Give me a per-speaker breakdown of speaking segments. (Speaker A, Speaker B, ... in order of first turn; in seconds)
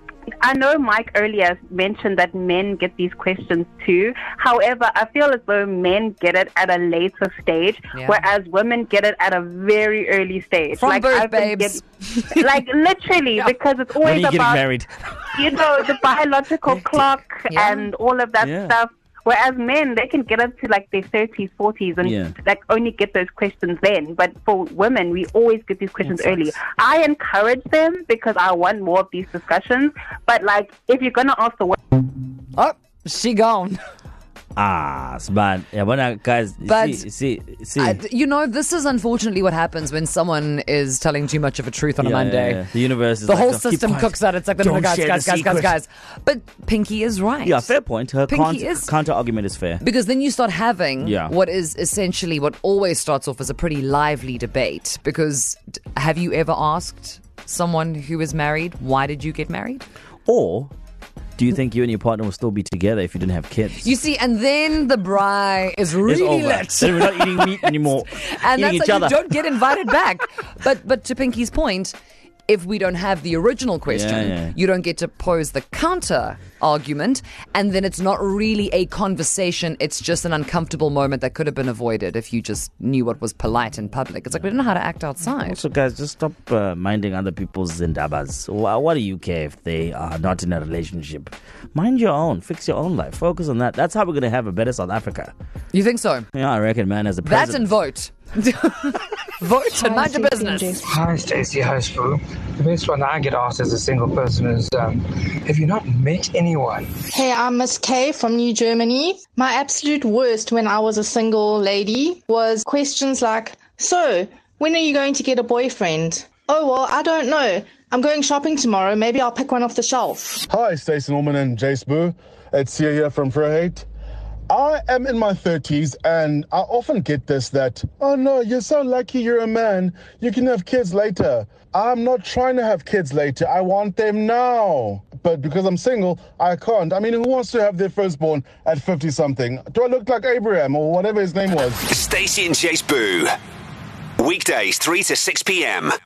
Speaker A: 0.4-11.8, 12.3-14.6, 15.3-31.8
Speaker B: 8.0-8.2, 10.8-12.6, 32.5-33.8, 36.7-37.0, 37.8-42.6, 43.3-47.6, 48.3-48.8, 49.8-59.9, 63.8-67.6, 68.2-72.0, 72.5-85.5, 95.7-96.3, 97.2-100.7
Speaker C: 14.0-15.4, 16.7-17.0, 18.4-18.7, 22.0-22.3, 26.1-26.5, 34.5-38.0, 42.0-45.8, 47.4-49.8, 51.0-51.3, 60.2-60.7, 61.4-63.9, 66.0-69.5, 73.9-74.6, 85.3-95.3, 96.3-97.7
Speaker D: 99.7-100.9, 107.1-120.4
Speaker E: 100.8-107.0
Speaker F: 120.5-123.9, 124.5-141.8
Speaker G: 141.9-143.3, 144.2-145.9